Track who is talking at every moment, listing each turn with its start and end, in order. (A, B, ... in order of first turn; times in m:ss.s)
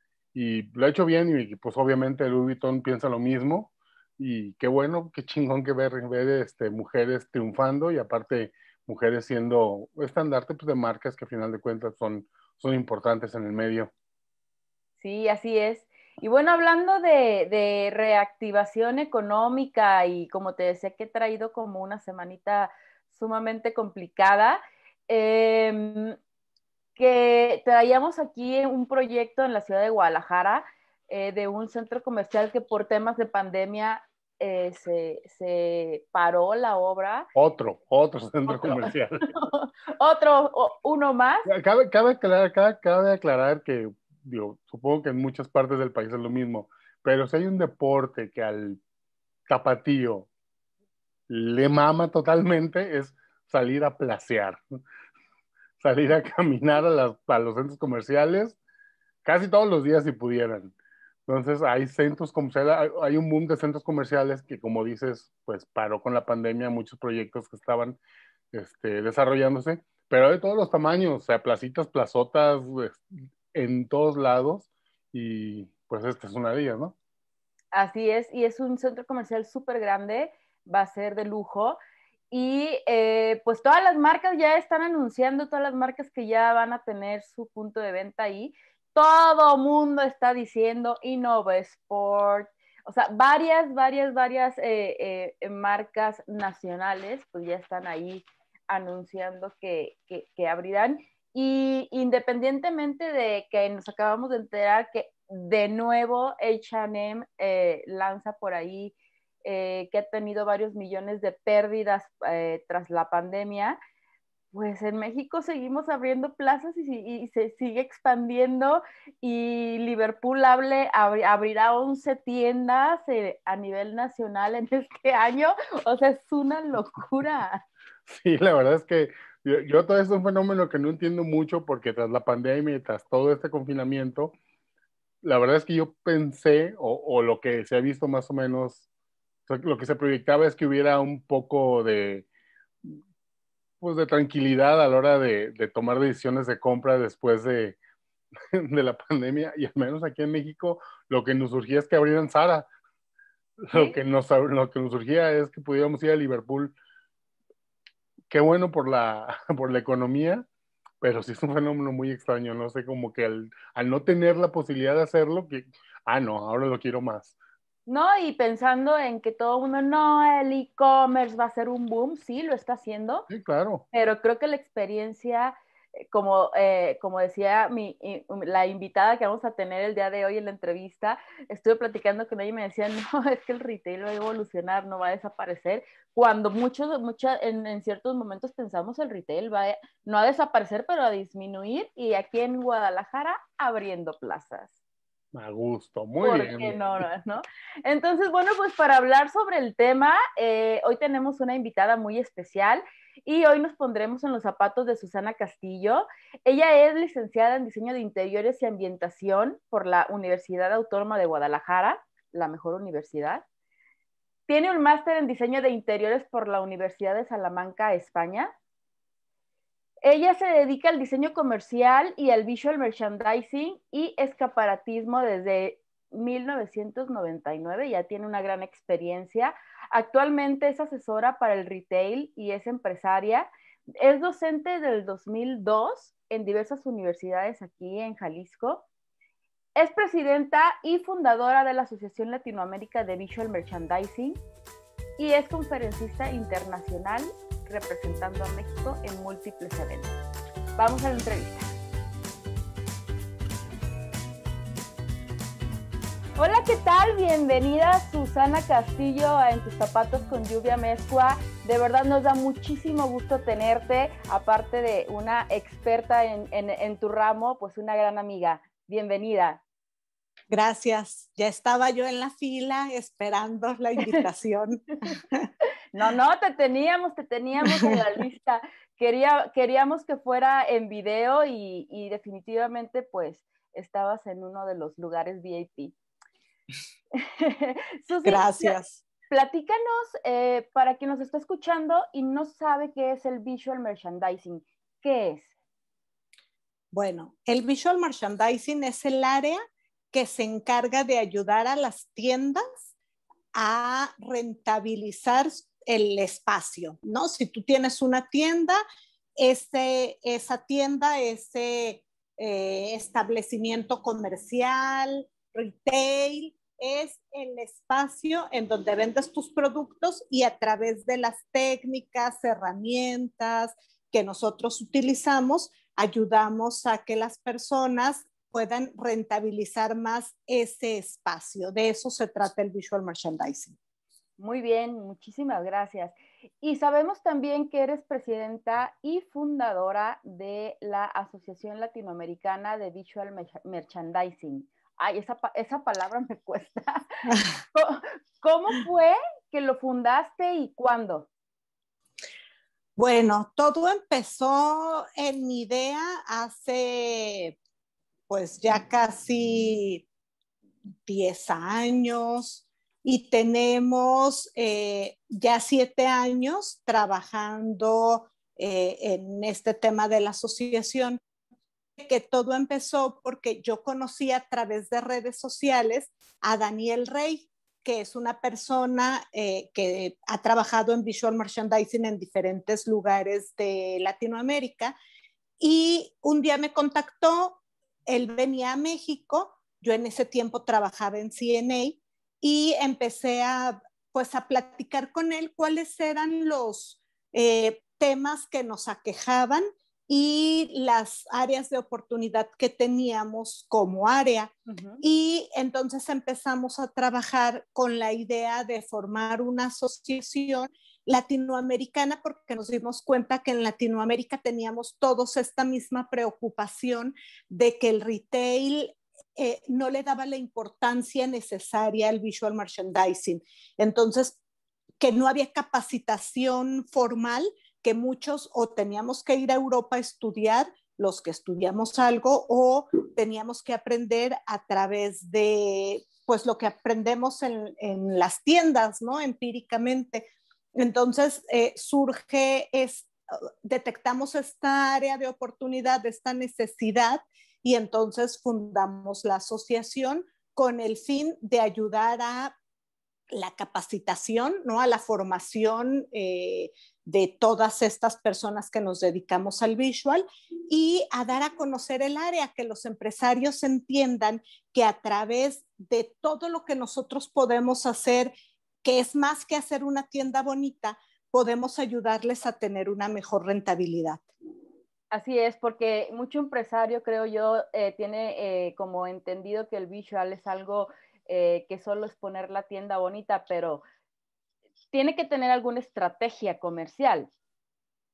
0:00.3-0:13.9 A
0:15.0-0:26.2 B
0:27.0-0:37.3 B
0:37.4-0:39.3 A
0:38.5-0:41.5 B
0:41.5-0:48.8 A
0:49.5-0:50.3 A
0:51.3-0:54.6 A
0:55.8-0:58.6 A
0:59.2-1:00.7 A
1:01.3-1:08.0 A
1:08.5-1:17.0 A
1:17.7-1:21.8 B
1:22.3-1:53.8 B
1:54.5-2:07.6 B
2:08.1-2:14.3 A
2:15.2-2:18.9 A
2:19.5-2:22.3 A
2:23.8-2:27.8 A
2:28.5-2:32.7 A
2:33.6-2:36.8 A
2:33.7-2:34.0 B
2:38.3-2:40.5 A
2:41.0-2:47.4 A
2:47.9-2:53.3 B
2:53.3-2:53.8 A
2:53.9-2:55.6 B
2:56.1-3:14.7 B
3:15.3-3:16.8 A
3:16.2-3:33.4 B
3:34.5-3:38.5 B
3:40.0-3:58.8 B
3:59.8-4:04.4 B
4:05.2-4:10.1 B
4:10.8-4:11.7 B
4:16.4-4:29.6 B
4:30.5-4:35.5 C
4:35.9-4:45.9 B
4:37.6-4:38.0 C
4:47.2-4:48.8 B
4:48.2-4:49.0 C
4:49.3-4:55.5 B
4:56.9-4:59.6 C
5:00.1-5:02.8 C
5:03.5-5:08.8 C
5:09.4-5:33.8 C
5:34.4-5:47.0 B
5:47.3-5:47.5 C
5:47.7-5:51.3 B
5:53.0-5:57.6 C
5:58.3-6:00.1 C
6:01.0-6:11.2 C
6:12.0-6:25.0 C
6:25.6-7:04.4 C
6:44.7-6:45.0 B
7:05.0-7:23.1 C
7:23.6-7:32.6 C
7:33.3-7:54.3 C
7:55.1-8:03.8 B
8:04.9-8:07.3 B